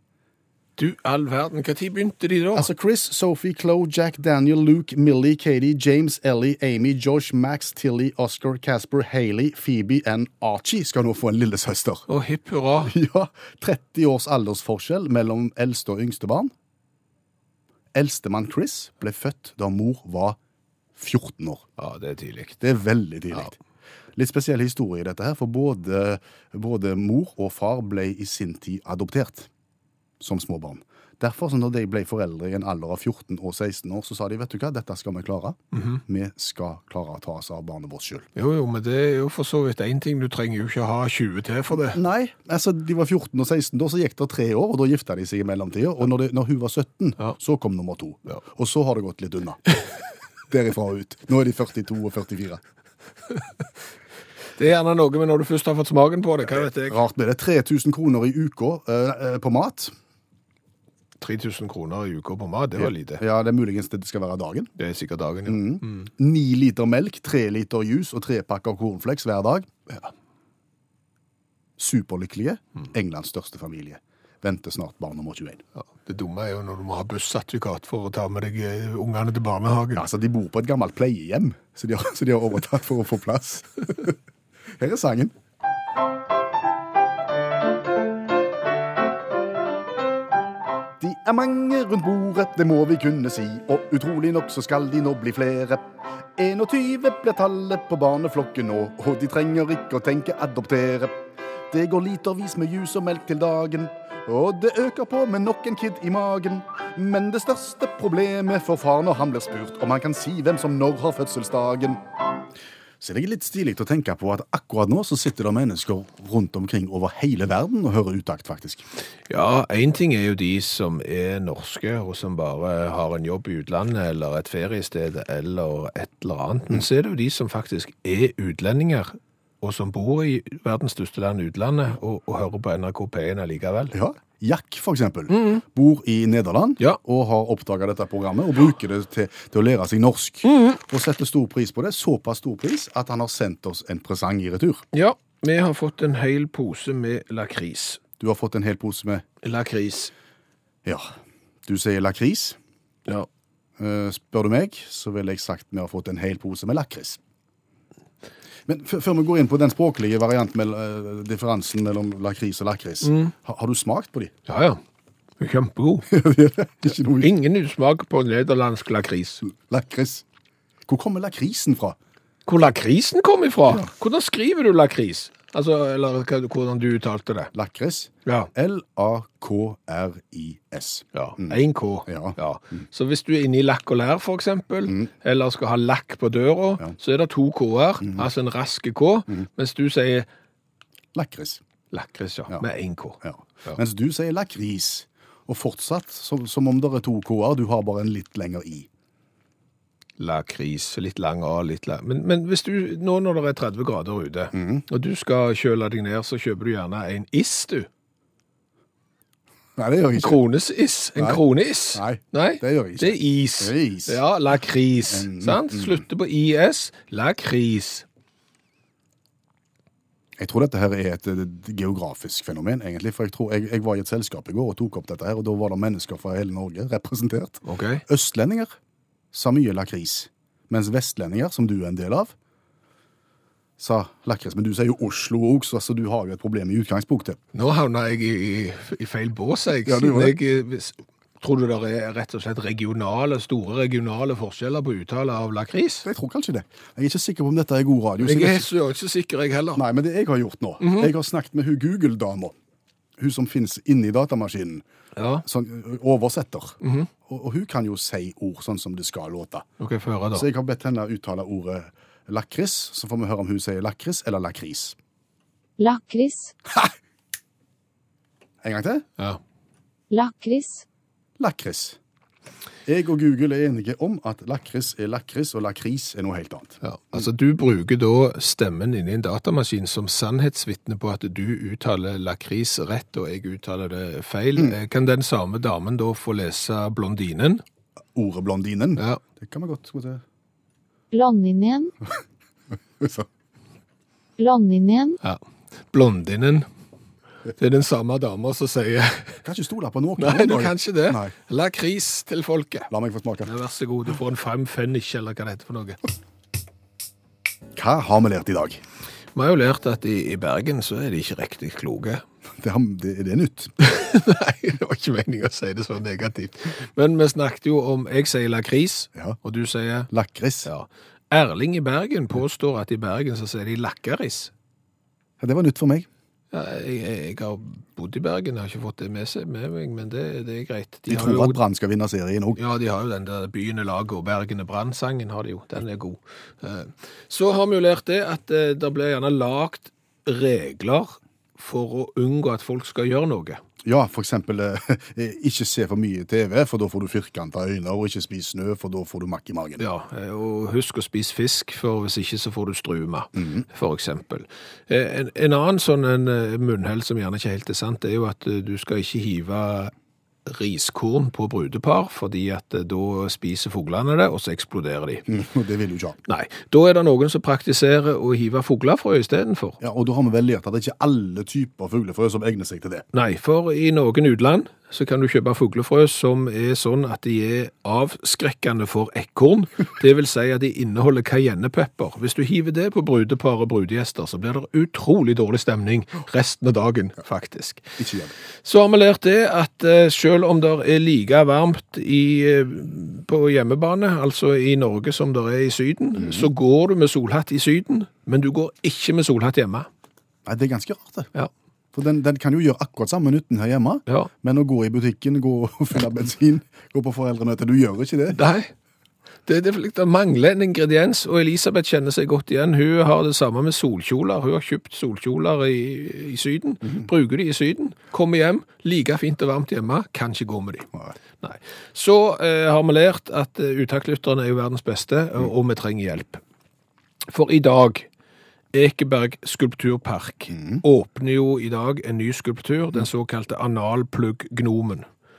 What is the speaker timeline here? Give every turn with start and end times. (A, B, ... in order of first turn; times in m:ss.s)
0:00.8-0:02.7 A
0:02.6-0:12.0 B
0:12.1-0:13.0 A
0:12.8-0:16.5 B
0:17.9-0:20.4 B
0:21.0-0:21.6 B
0:21.8-0:22.6 A
0:22.6-0:23.6 B
0:24.2-0:29.5 B
0:30.2-0:38.3 B
0:35.7-0:36.0 A
0:38.4-0:42.0 A
0:41.9-0:49.8 B
0:50.5-0:52.6 B
0:54.6-0:57.0 A
0:56.8-0:59.9 B
1:01.2-1:03.2 A
1:02.8-1:04.7 B
1:04.8-1:06.1 A
1:05.5-1:09.7 B
1:11.8-1:15.6 B
1:15.8-1:20.1 A
1:20.0-1:24.2 B
1:24.7-1:25.3 B
1:31.0-1:41.2 B
1:41.7-1:52.0 B
1:53.0-1:58.9 B
1:59.3-2:13.9 A
2:13.9-2:24.8 B
2:15.3-2:15.6 A
2:20.4-2:20.8 A
2:24.9-2:28.0 A
2:28.2-2:29.2 B
2:29.4-2:30.1 A
2:31.7-2:32.6 B
2:33.8-2:37.2 B
2:38.7-2:44.3 B
2:43.0-2:43.3 A
2:44.5-2:44.8 A
2:45.4-2:46.1 A
2:46.1-2:47.3 B
2:47.2-2:49.4 A
2:49.5-2:50.2 B
2:50.9-2:52.0 B
2:52.5-2:57.5 A
2:57.5-3:02.9 B
2:58.3-2:58.5 A
3:01.1-3:10.3 A
3:11.2-3:11.6 B
3:11.9-3:13.8 A
3:13.2-3:18.9 B
3:20.2-3:27.9 A
3:24.5-3:24.8 B
3:29.8-3:30.4 B
3:30.2-3:38.1 A
3:31.2-3:31.4 B
3:31.9-3:34.2 B
3:35.1-3:36.0 B
3:40.4-3:48.7 B
3:47.6-3:48.0 A
3:49.3-3:52.3 B
3:53.8-3:57.4 B
3:57.5-4:06.1 A
3:59.9-4:00.4 B
4:06.0-4:08.7 B
4:08.2-4:09.8 A
4:09.8-4:12.6 B
4:10.8-4:11.1 A
4:13.2-4:14.8 B
4:15.2-4:15.4 A
4:15.4-4:19.7 B
4:16.8-4:17.1 A
4:19.8-4:20.5 A
4:20.3-4:25.0 B
4:25.8-4:26.5 C
4:28.6-4:29.1 B
4:30.1-4:30.8 C
4:31.4-4:32.0 B
4:32.9-4:37.2 B
4:36.8-4:47.6 A
4:48.2-4:50.2 B
4:51.1-4:51.9 C
4:53.0-4:53.3 B
4:54.4-4:55.2 C
4:55.2-4:56.7 A
4:57.6-4:59.4 A
4:59.4-5:01.3 B
5:00.2-5:02.9 A
5:02.9-5:03.5 B
5:03.4-5:06.0 A
5:07.8-5:08.8 B
5:09.4-5:12.2 A
5:12.6-5:13.7 B
5:13.8-5:20.1 A
5:20.1-5:20.7 B
5:20.6-5:24.5 A
5:25.4-5:26.1 B
5:26.5-5:31.6 A
5:31.1-5:32.6 B
5:32.6-5:43.6 A
5:43.8-5:49.8 B
5:49.8-5:59.9 A
5:53.4-5:53.6 B
6:00.5-6:05.3 A
6:05.3-6:06.2 B
6:06.3-6:09.8 A
6:09.8-6:13.0 B
6:13.1-6:27.9 A
6:28.0-6:28.3 B
6:28.6-6:39.9 A
6:36.2-6:36.5 B
6:40.5-6:41.3 B
6:41.9-6:48.4 B
6:48.3-6:48.7 A
6:49.5-7:00.9 A
7:01.4-7:06.4 A
7:07.3-7:08.1 A
7:08.7-7:15.1 A
7:10.6-7:10.8 B